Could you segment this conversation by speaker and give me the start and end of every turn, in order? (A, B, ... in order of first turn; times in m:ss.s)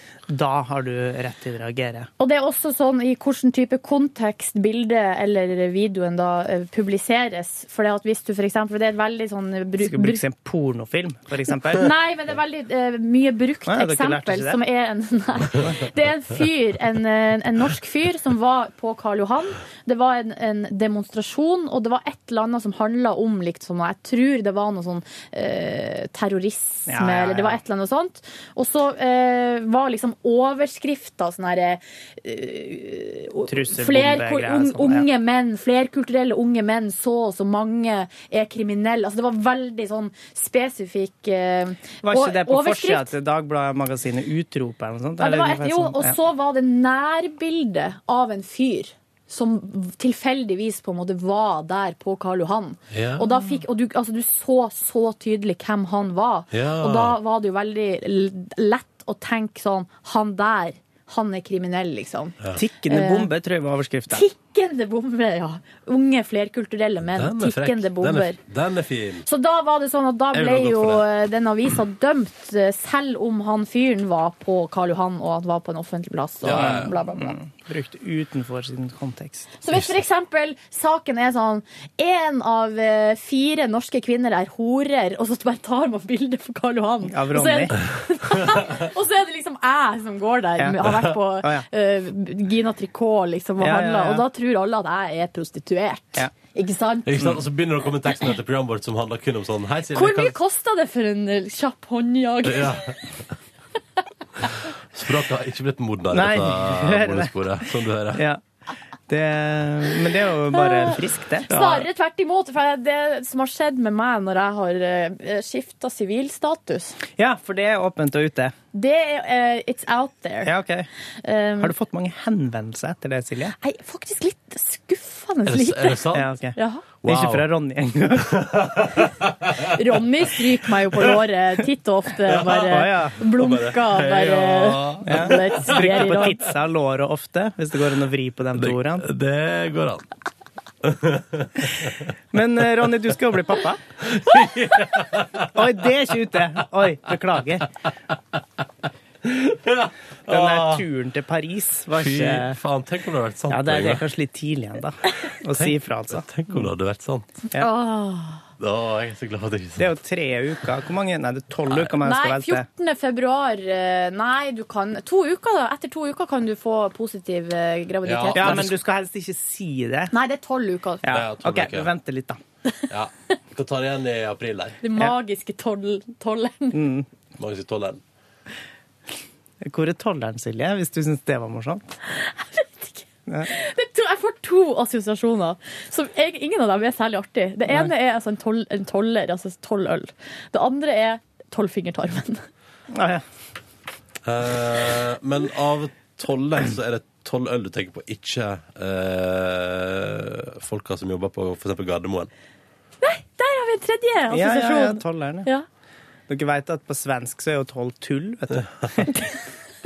0:00.3-0:02.1 A
0:02.2-0:10.2 B
0:09.8-0:11.9 A
0:11.7-0:43.1 B
0:13.7-0:14.6 A
0:26.9-0:27.6 A
0:33.5-0:35.1 A
0:42.0-0:46.2 A
0:45.2-1:03.3 B
0:52.9-0:53.3 C
0:56.5-0:57.2 C
1:02.6-1:04.3 A
1:04.1-1:08.4 B
1:07.1-1:09.2 C
1:09.2-1:17.4 B
1:10.3-1:11.0 C
1:16.4-1:16.9 C
1:16.5-1:19.5 A
1:19.6-1:37.4 B
1:27.0-1:27.8 A
1:30.6-1:31.7 A
1:33.6-1:34.3 A
1:37.1-1:40.4 C
1:39.9-1:42.9 B
1:42.4-1:43.0 C
1:44.9-1:48.2 C
1:46.1-1:48.4 A
1:49.1-1:51.5 A
1:51.4-1:57.0 B
1:51.5-1:51.9 C
1:57.2-1:58.6 A
1:58.7-2:00.5 B
2:00.4-2:00.9 A
2:01.2-2:01.7 B
2:01.6-2:03.6 A
2:03.6-2:06.8 B
2:05.5-2:06.3 C
2:06.1-2:08.6 A
2:07.0-2:07.5 C
2:08.3-2:09.7 C
2:09.7-2:16.5 B
2:12.3-2:12.7 C
2:12.6-2:13.2 A
2:13.2-2:16.1 C
2:15.1-2:19.1 A
2:18.6-2:20.1 C
2:20.8-2:22.1 C
2:22.3-2:23.8 A
2:24.0-2:25.6 C
2:25.5-2:27.7 A
2:29.2-2:30.8 C
2:30.3-2:32.6 A
2:32.0-2:34.0 C
2:33.5-2:36.7 A
2:35.6-2:37.3 C
2:37.5-2:38.4 B
2:38.6-2:39.9 C
2:39.8-2:42.7 A
2:42.0-2:48.7 B
2:48.0-2:48.8 C
2:48.3-2:50.2 A
2:50.1-2:51.0 B
2:51.0-2:52.4 A
2:51.1-2:51.9 C
2:52.9-2:54.8 C
2:54.8-2:56.8 B
2:56.7-2:57.1 A
2:57.4-2:58.0 C
2:59.6-3:02.0 A
3:02.1-3:12.4 B
3:03.3-3:03.5 A
3:12.9-3:13.2 A
3:14.2-3:22.3 C
3:23.0-3:25.7 B
3:24.3-3:25.5 A
3:26.3-3:29.2 A